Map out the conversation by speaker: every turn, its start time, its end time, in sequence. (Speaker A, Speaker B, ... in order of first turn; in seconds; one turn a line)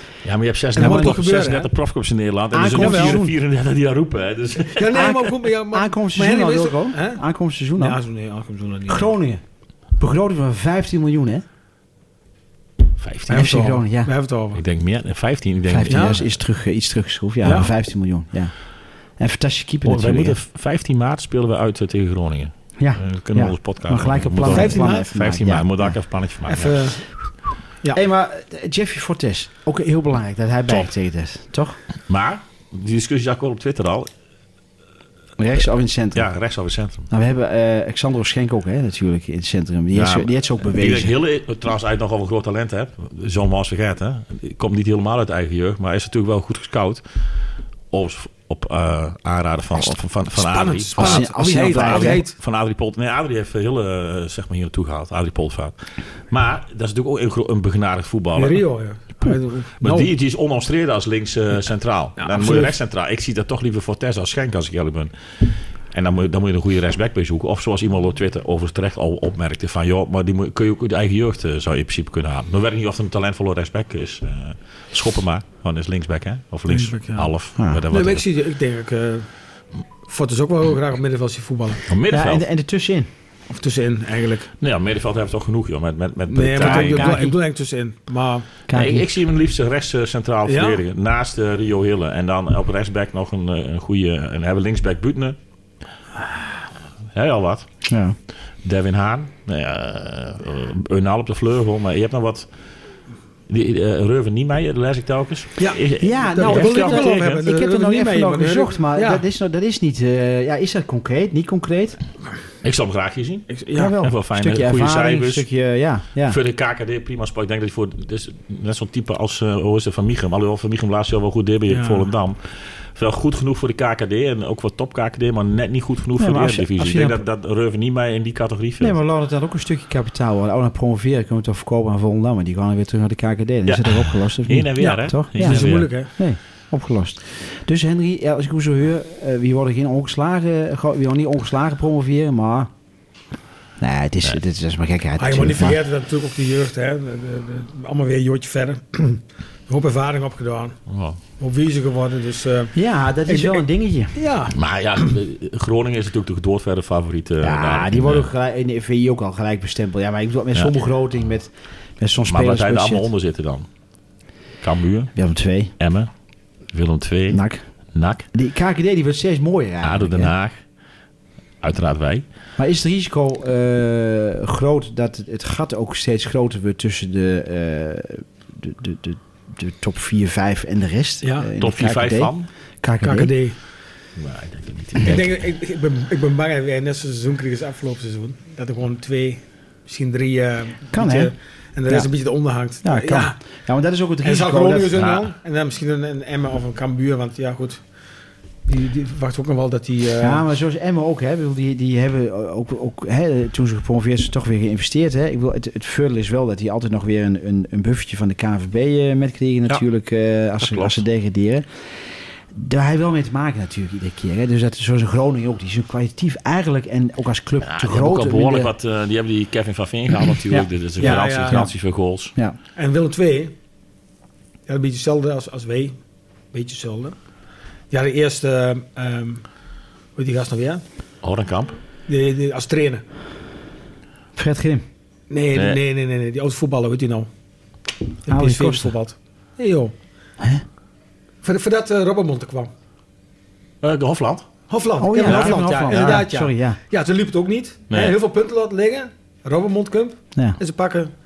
Speaker A: 0.2-4.9
Speaker B: 0.8-1.2
Speaker C: 0.8-1.7
Speaker B: 2.5-3.3
Speaker C: 2.7-3.2
Speaker C: 4.7-7.2
Speaker B: 4.9-8.0
Speaker C: 7.8-9.1
Speaker B: 8.9-9.4
Speaker B: 10.0-11.4
Speaker A: 13.0-13.5
Speaker C: 13.3-14.6
Speaker B: 13.3-14.1
Speaker A: 14.5-16.3
Speaker B: 15.7-18.5
Speaker C: 15.9-16.2
Speaker C: 17.4-17.7
Speaker B: 19.2-20.4
Speaker A: 19.9-26.9
Speaker B: 22.8-26.0
Speaker C: 24.5-25.1
Speaker C: 26.5-27.1
Speaker B: 27.9-31.8
Speaker A: 32.1-34.1
Speaker B: 35.4-36.3
Speaker A: 36.1-37.1
Speaker B: 37.1-41.1
Speaker A: 39.9-47.0
Speaker A: 47.9-55.8
Speaker C: 50.4-52.3
Speaker B: 51.0-52.2
Speaker A: 56.3-58.6
Speaker C: 58.4-60.1
Speaker A: 59.8-78.2
Speaker C: 62.2-62.7
Speaker C: 76.7-77.3
Speaker B: 77.6-77.8
Speaker C: 77.9-79.3
Speaker C: 80.1-81.8
Speaker A: 81.9-82.4
Speaker B: 82.1-83.1
Speaker C: 83.5-84.5
Speaker A: 84.6-87.2
Speaker C: 86.3-88.5
Speaker B: 86.6-87.4
Speaker B: 88.7-89.1
Speaker A: 88.7-95.4
Speaker C: 90.5-90.8
Speaker A: 97.1-97.7
Speaker B: 97.9-98.2
Speaker A: 98.6-102.5
Speaker A: 103.5-107.4
Speaker C: 105.6-109.2
Speaker B: 106.0-112.0
Speaker A: 112.6-115.5
Speaker C: 113.5-113.9
Speaker B: 113.7-116.4
Speaker A: 116.2-129.0
Speaker C: 121.7-122.1
Speaker B: 126.2-127.2
Speaker B: 128.8-142.7
Speaker A: 133.7-135.9
Speaker C: 134.8-136.1
Speaker B: 143.8-145.8
Speaker C: 145.2-150.8
Speaker A: 150.9-151.2
Speaker C: 151.4-152.8
Speaker B: 152.8-154.1
Speaker C: 153.3-154.6
Speaker A: 154.5-158.3
Speaker B: 157.4-163.1
Speaker A: 162.3-163.7
Speaker A: 164.6-165.1
Speaker B: 165.2-165.7
Speaker A: 165.8-166.1
Speaker A: 166.7-167.4
Speaker B: 167.3-167.6
Speaker A: 167.9-168.3
Speaker B: 168.3-170.3
Speaker A: 169.8-170.6
Speaker A: 171.6-172.2
Speaker B: 172.6-183.3
Speaker C: 181.2-181.5
Speaker A: 181.6-182.5
Speaker C: 183.0-183.6
Speaker A: 184.2-185.3
Speaker C: 185.0-193.4
Speaker B: 190.9-191.3
Speaker B: 192.8-195.0
Speaker C: 194.2-197.8
Speaker A: 195.0-195.3
Speaker C: 198.7-200.4
Speaker B: 200.2-211.7
Speaker A: 210.6-211.0
Speaker B: 212.5-218.7
Speaker A: 217.6-222.3
Speaker B: 220.5-221.7
Speaker C: 221.0-221.6
Speaker C: 222.8-223.6
Speaker C: 224.7-226.0
Speaker C: 226.5-227.2
Speaker C: 227.9-229.4
Speaker C: 230.2-230.8
Speaker A: 231.2-231.8
Speaker C: 232.1-233.0
Speaker B: 234.4-234.8
Speaker C: 235.3-237.3
Speaker A: 235.5-235.8
Speaker C: 238.2-239.9
Speaker B: 238.3-238.9
Speaker C: 241.4-242.7
Speaker A: 243.8-244.5
Speaker C: 244.7-251.1
Speaker B: 245.0-246.8
Speaker A: 245.2-246.2
Speaker A: 247.9-248.2